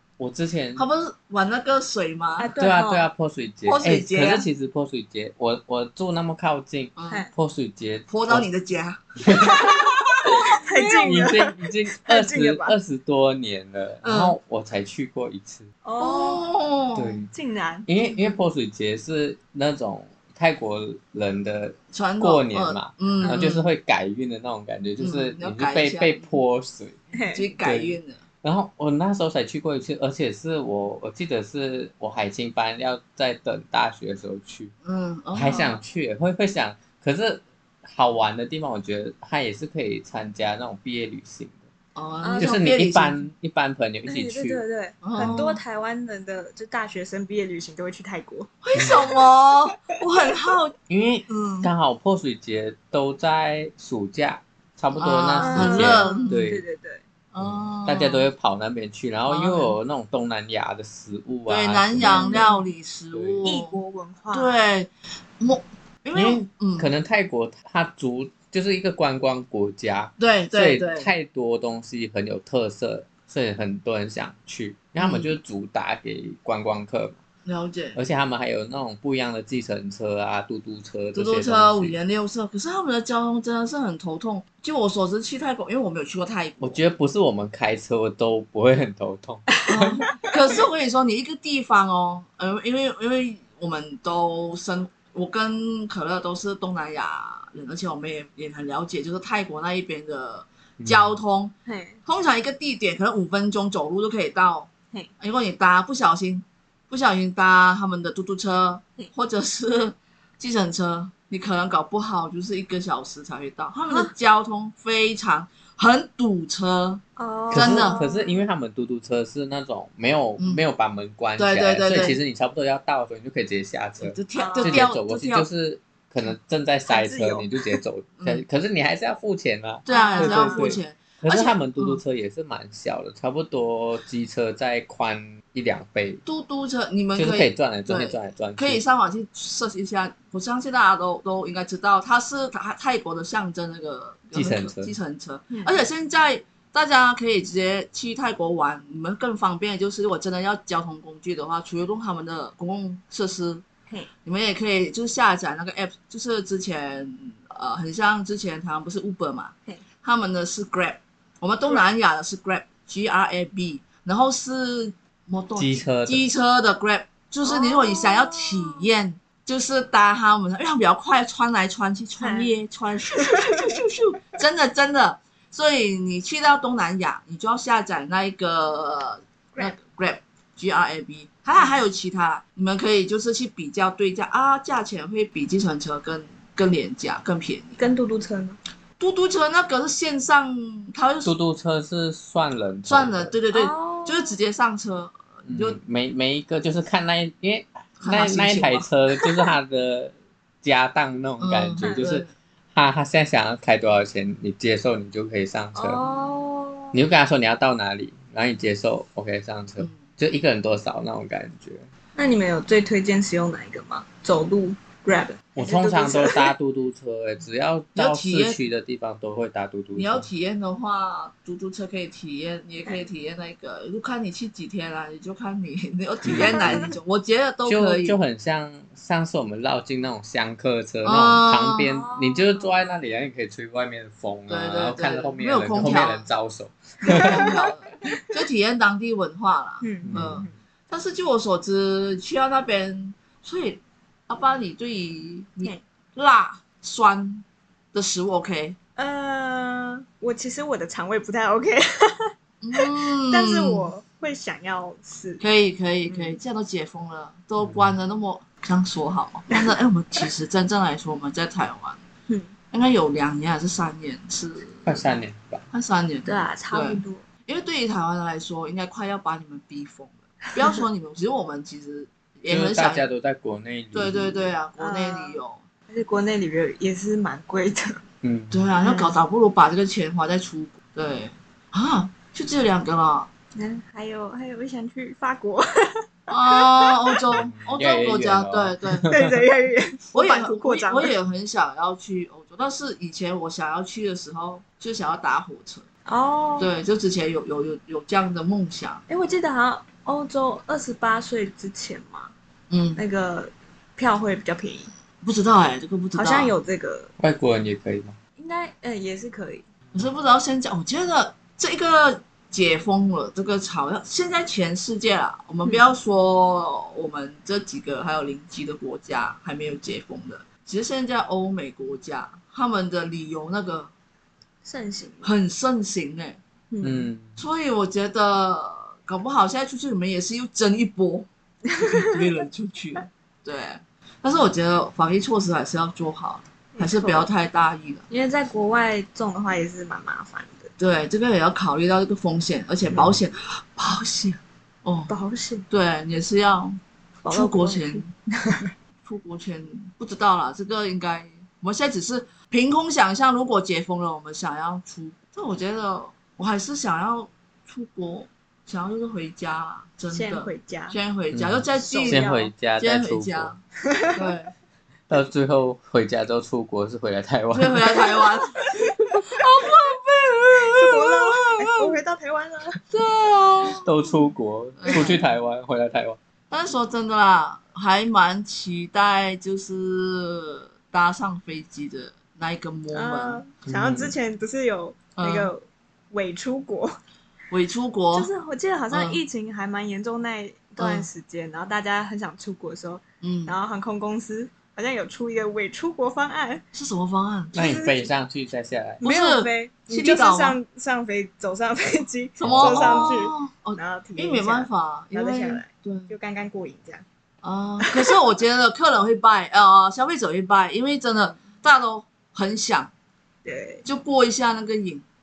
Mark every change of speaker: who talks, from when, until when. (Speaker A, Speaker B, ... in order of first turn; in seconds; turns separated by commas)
Speaker A: 0.2-0.9, Speaker B: 0.8-2.5, Speaker C: 2.4-3.1, Speaker A: 2.6-8.5, Speaker B: 3.6-4.5, Speaker B: 7.0-7.3, Speaker B: 8.1-11.1, Speaker A: 9.2-9.7, Speaker C: 9.3-12.8, Speaker A: 10.3-15.7, Speaker B: 14.0-14.4, Speaker C: 15.8-16.5, Speaker B: 16.0-17.2, Speaker A: 17.0-17.3, Speaker C: 17.3-17.9, Speaker A: 17.9-27.0, Speaker B: 18.0-18.3, Speaker B: 21.9-23.7, Speaker C: 23.2-23.5, Speaker B: 25.0-26.4, Speaker C: 27.1-27.5, Speaker B: 27.4-28.2, Speaker A: 27.6-34.7, Speaker B: 34.8-35.7, Speaker A: 35.3-41.6, Speaker C: 35.5-35.8, Speaker B: 42.0-43.2, Speaker C: 42.2-42.7, Speaker A: 42.4-44.6, Speaker C: 44.1-49.1, Speaker B: 45.0-45.6, Speaker B: 48.6-50.7, Speaker A: 50.9-56.6, Speaker B: 51.3-51.7, Speaker B: 55.0-56.4, Speaker C: 55.4-57.0, Speaker B: 57.3-58.3, Speaker A: 57.4-62.5, Speaker B: 59.3-59.8, Speaker B: 61.5-63.8, Speaker C: 62.1-62.6, Speaker A: 63.1-63.4, Speaker C: 63.4-64.6, Speaker B: 64.3-66.9, Speaker A: 66.2-77.2, Speaker B: 70.2-71.1, Speaker B: 75.0-75.4, Speaker B: 77.5-78.0, Speaker A: 78.0-82.0, Speaker B: 81.2-86.8, Speaker A: 86.6-90.0, Speaker C: 89.5-90.2, Speaker B: 89.7-101.5, Speaker A: 100.8-101.2, Speaker C: 101.7-102.0, Speaker B: 102.1-118.0, Speaker C: 117.2-118.5, Speaker A: 117.5-136.2, Speaker B: 121.4-122.2, Speaker B: 124.0-125.5, Speaker C: 124.3-124.8, Speaker C: 126.9-127.8, Speaker B: 129.8-132.0, Speaker C: 129.9-130.7, Speaker B: 136.3-153.6, Speaker A: 137.2-138.8, Speaker A: 144.3-144.9, Speaker C: 145.5-145.8, Speaker B: 154.2-187.8, Speaker A: 165.6-166.2, Speaker C: 167.4-168.9, Speaker C: 172.2-172.5, Speaker C: 173.2-173.7, Speaker C: 187.8-188.6, Speaker B: 189.0-191.3, Speaker A: 191.2-193.3, Speaker B: 192.9-195.8, Speaker C: 193.5-194.4, Speaker A: 195.5-206.0, Speaker B: 198.0-198.9, Speaker B: 201.4-202.3, Speaker C: 201.8-202.1, Speaker C: 205.8-207.0, Speaker A: 206.9-211.9, Speaker C: 212.2-216.5, Speaker A: 215.6-220.3, Speaker B: 218.0-218.6, Speaker B: 219.9-228.2, Speaker A: 226.2-226.9, Speaker C: 226.4-226.9, Speaker A: 227.7-237.5, Speaker B: 231.0-231.9, Speaker C: 231.8-232.8, Speaker B: 234.5-236.3, Speaker B: 237.0-248.8, Speaker C: 237.1-238.2, Speaker C: 239.8-240.6, Speaker A: 240.1-240.5, Speaker C: 249.0-255.4, Speaker B: 252.6-253.9, Speaker B: 255.4-262.0, Speaker C: 256.1-256.4, Speaker A: 257.6-257.9, Speaker C: 259.5-260.2, Speaker C: 262.3-262.5, Speaker B: 262.7-265.1, Speaker A: 264.9-265.7, Speaker B: 265.7-273.0, Speaker C: 266.2-267.2, Speaker C: 270.5-270.8, Speaker A: 272.5-274.6, Speaker B: 273.9-275.6, Speaker C: 274.8-278.0, Speaker A: 278.2-278.7, Speaker B: 278.5-283.3, Speaker C: 278.8-279.2, Speaker C: 283.6-287.3, Speaker B: 286.3-289.1, Speaker A: 287.3-289.3, Speaker C: 289.1-291.1, Speaker B: 290.1-295.8, Speaker C: 296.1-296.7, Speaker B: 296.6-299.0, Speaker C: 299.1-302.3, Speaker B: 302.7-303.0, Speaker C: 303.0-304.9, Speaker B: 305.2-306.5, Speaker C: 306.1-307.1, Speaker A: 307.2-308.2, Speaker C: 308.4-309.7, Speaker B: 309.9-323.9, Speaker C: 324.6-325.3, Speaker B: 325.2-326.4, Speaker C: 326.7-327.1, Speaker A: 326.8-327.4, Speaker B: 327.4-338.0, Speaker C: 331.7-332.2, Speaker C: 336.8-337.3, Speaker C: 338.1-340.7, Speaker B: 340.8-345.1, Speaker C: 345.1-345.7, Speaker B: 345.7-348.1, Speaker C: 347.2-348.7, Speaker B: 349.0-363.6, Speaker C: 360.1-361.0, Speaker A: 361.3-363.5, Speaker C: 361.8-362.5, Speaker C: 363.8-364.2, Speaker B: 364.1-364.5, Speaker A: 365.1-368.0, Speaker B: 367.5-368.6, Speaker B: 369.2-372.0, Speaker C: 370.7-372.8, Speaker B: 372.9-373.9, Speaker A: 373.8-376.2, Speaker B: 374.8-375.2, Speaker C: 374.9-375.2, Speaker B: 376.5-383.4, Speaker C: 382.9-386.9, Speaker A: 383.7-384.1, Speaker B: 385.2-385.5, Speaker B: 387.5-388.3, Speaker C: 388.1-396.6, Speaker B: 388.9-389.2, Speaker B: 390.8-391.1, Speaker B: 393.2-393.6, Speaker B: 396.7-397.7, Speaker C: 397.5-398.1, Speaker A: 397.6-399.0, Speaker B: 399.0-400.6, Speaker C: 399.0-407.0, Speaker B: 402.4-406.1, Speaker A: 402.4-403.1, Speaker B: 407.4-412.9, Speaker C: 407.8-408.4, Speaker C: 413.4-413.9, Speaker B: 413.9-415.0